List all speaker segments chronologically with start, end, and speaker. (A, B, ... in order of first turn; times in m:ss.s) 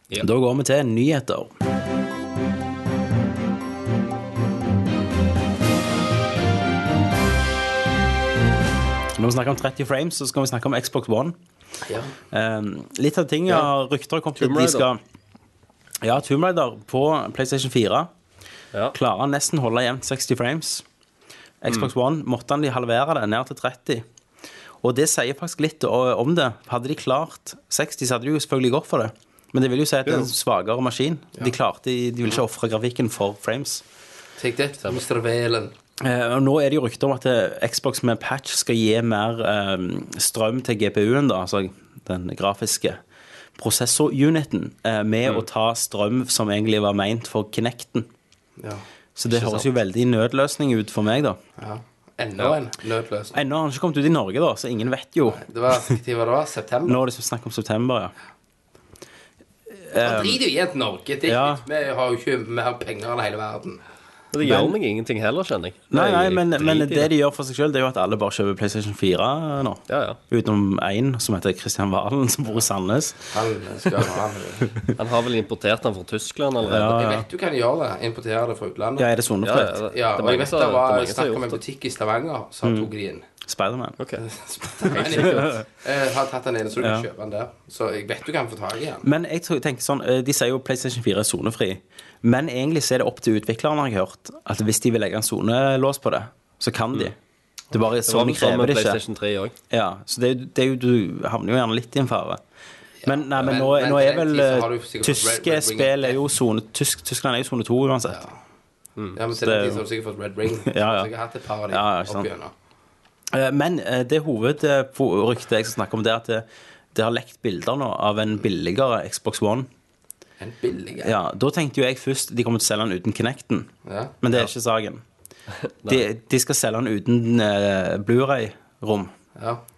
0:00.1-0:01.5 A
0:09.2-0:11.4 A
0:11.8-0:12.1 B
0:12.3-0:15.0 A
0:14.4-0:14.9 C
0:16.0-0:18.1 A
0:18.9-0:20.8 A
0:21.6-0:24.0 A
0:24.8-0:33.8 A
0:34.4-0:35.7 B
0:36.0-0:43.0 A
0:43.6-0:48.1 A
0:48.6-0:48.8 B
0:49.2-0:51.4 A
0:49.3-0:49.6 C
0:51.6-0:53.4 B
0:53.3-0:55.9 A
0:55.2-0:57.0 B
0:56.8-0:58.1 A
0:59.7-1:00.4 A
0:59.9-1:03.8 B
1:01.2-1:01.6 A
1:04.3-1:07.1 C
1:04.4-1:04.7 A
1:05.9-1:13.3 A
1:09.9-1:10.2 C
1:13.3-1:14.8 B
1:14.9-1:17.1 C
1:16.6-1:17.2 A
1:16.8-1:19.1 B
1:19.0-1:19.8 A
1:19.4-1:21.6 C
1:19.9-1:23.2 B
1:22.6-1:22.9 A
1:23.4-1:24.0 A
1:24.2-1:29.0 B
1:24.8-1:25.5 C
1:25.1-1:25.6 A
1:26.8-1:27.0 A
1:29.0-1:37.2 A
1:37.7-1:39.0 A
1:38.1-1:39.5 C
1:39.7-1:42.4 A
1:43.0-1:46.2 B
1:43.0-1:48.2 A
1:48.1-1:48.4 B
1:49.1-1:52.5 B
1:49.3-1:49.8 A
1:50.6-1:51.1 A
1:51.7-1:52.3 A
1:53.3-1:59.7 A
2:00.4-2:01.2 B
2:01.0-2:03.7 A
2:03.8-2:04.2 B
2:04.2-2:05.0 A
2:05.9-2:09.1 A
2:09.3-2:09.6 B